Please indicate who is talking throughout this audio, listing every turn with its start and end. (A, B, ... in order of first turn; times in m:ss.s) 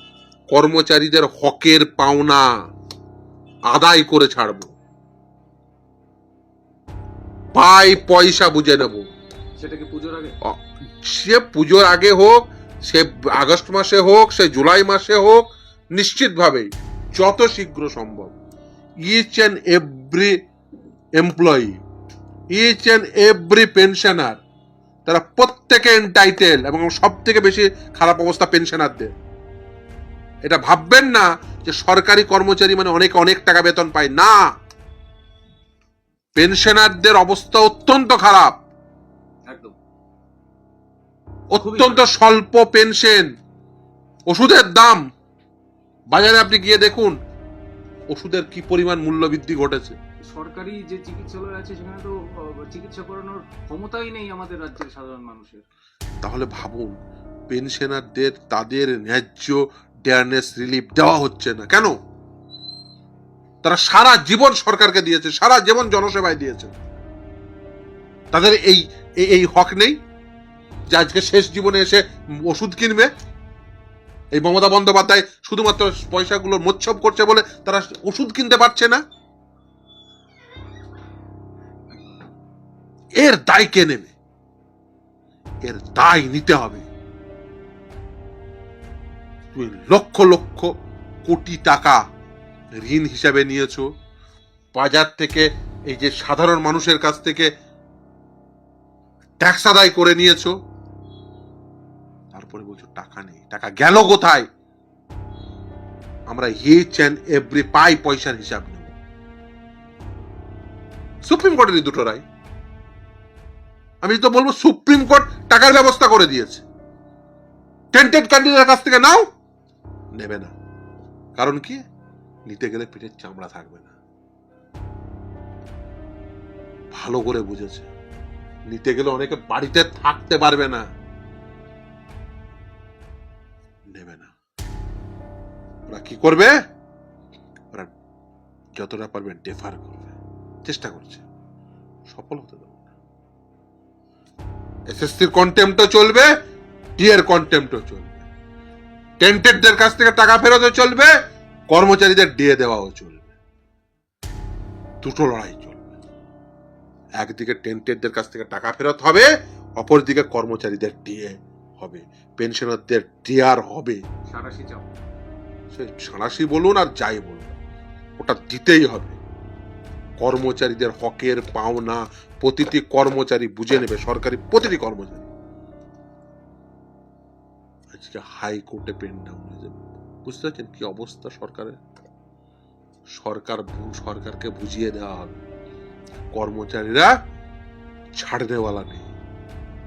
0:00.5-0:02.5 A
0:03.7-0:04.7 A
0:07.5-0:09.1 A
0:09.6-0:10.3 B
0:10.5-0:18.4 A
0:19.0-0:20.3 A
0:21.2-0:21.8 A
0:22.5-0:24.4 A
0:25.0-0:29.1 A
0:30.5-0:34.4 A
0:36.4-0:38.6 A
0:39.5-0:39.8 B
0:41.5-0:43.3 A
0:41.6-0:42.0 B
0:44.3-0:45.0 A
0:46.1-0:47.2 A
0:48.1-0:50.0 A
0:50.3-0:55.6 B
0:56.2-0:56.9 A
0:57.5-1:01.9 A
1:03.6-1:06.7 A
1:08.3-1:10.0 A
1:10.9-1:13.1 A
1:14.3-1:19.0 A
1:23.2-1:24.1 A
1:25.6-1:26.9 A
1:29.5-1:30.7 A
1:31.2-1:32.0 A
1:32.8-1:33.9 A
1:34.8-1:37.5 A
1:39.4-1:40.5 A
1:42.3-1:44.4 A
1:46.3-1:49.0 A
1:51.2-1:52.2 A
1:54.0-1:56.6 A
1:57.9-1:59.2 A
2:00.2-2:00.5 A
2:01.4-2:01.8 A
2:02.5-2:03.9 A
2:06.9-2:07.9 A
2:08.7-2:10.8 A
2:13.9-2:14.3 A
2:15.9-2:16.5 A
2:18.8-2:21.2 A
2:22.1-2:22.9 A
2:24.9-2:26.3 A
2:27.0-2:28.2 A
2:29.2-2:31.1 A
2:31.7-2:33.3 A
2:35.0-2:35.9 A
2:37.2-2:44.0 A
2:44.3-2:44.9 B
2:45.7-2:47.5 A
2:48.2-2:49.2 A
2:50.2-2:55.3 A
2:58.0-3:01.8 A
3:03.2-3:05.4 A
3:06.3-3:07.1 A
3:08.2-3:09.1 A